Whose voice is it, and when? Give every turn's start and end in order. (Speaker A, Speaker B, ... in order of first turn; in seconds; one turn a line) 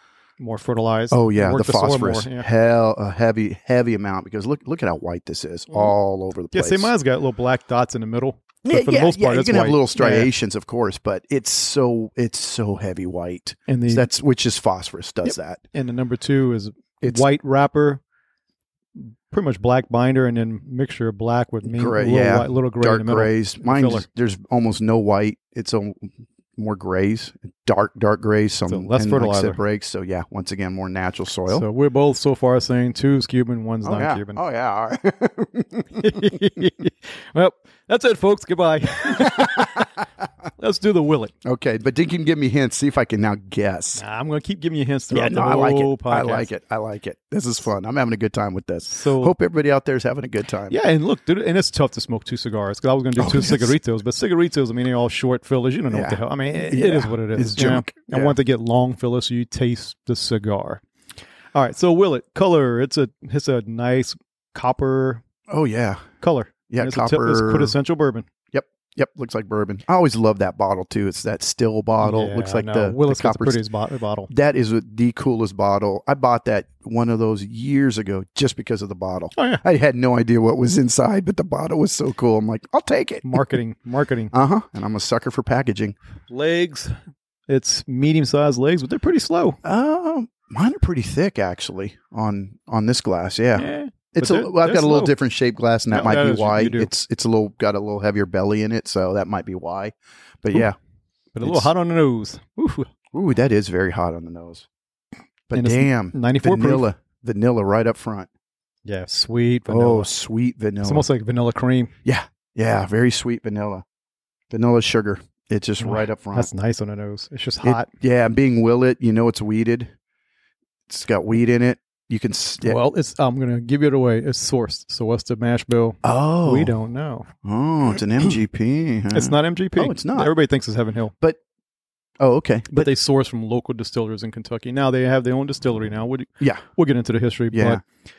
Speaker A: 0.4-2.5
Speaker B: 1.1-6.9
Speaker A: 6.5-10.3
Speaker B: 8.6-15.6
Speaker A: 13.7-14.1
Speaker A: 15.2-18.0
Speaker A: 18.9-24.1
Speaker B: 21.6-31.6
Speaker A: 28.7-29.6
Speaker A: 31.5-34.4
Speaker B: 33.8-36.4
Speaker A: 36.0-39.9
Speaker B: 39.1-39.9
Speaker A: 40.6-41.3
Speaker B: 41.4-44.0
Speaker A: 44.0-46.5
Speaker B: 45.1-50.8
Speaker A: 48.9-49.3
Speaker A: 50.7-60.8
Speaker B: 53.2-53.8
Speaker B: 55.9-58.4
Speaker A: 61.5-65.2
Speaker B: 65.5-66.1
Speaker A: 66.2-68.2
Speaker B: 66.7-67.8
Speaker B: 68.5-73.6
Speaker A: 72.0-74.3
Speaker B: 74.3-83.4
Speaker A: 79.4-79.6
Speaker A: 83.2-84.3
Speaker B: 84.3-86.0
Speaker A: 86.3-86.9
Speaker A: 87.5-89.6
Speaker B: 89.6-100.8
Speaker A: 93.5-95.1
Speaker A: 95.9-96.9
Speaker A: 101.3-102.9
Speaker B: 101.4-101.7
Speaker B: 103.1-104.7
Speaker B: 105.5-108.3
Speaker A: 105.5-106.9
Speaker A: 108.9-110.1
Speaker B: 109.7-111.1
Speaker A: 110.8-111.9
Speaker B: 112.0-113.8
Speaker B: 114.5-116.5
Speaker A: 115.8-117.9
Speaker B: 117.6-119.9
Speaker B: 120.9-122.8
Speaker A: 122.6-127.3
Speaker B: 126.0-126.7
Speaker B: 127.4-130.3
Speaker A: 129.1-131.1
Speaker B: 132.2-132.9
Speaker A: 132.7-137.8
Speaker B: 137.5-137.8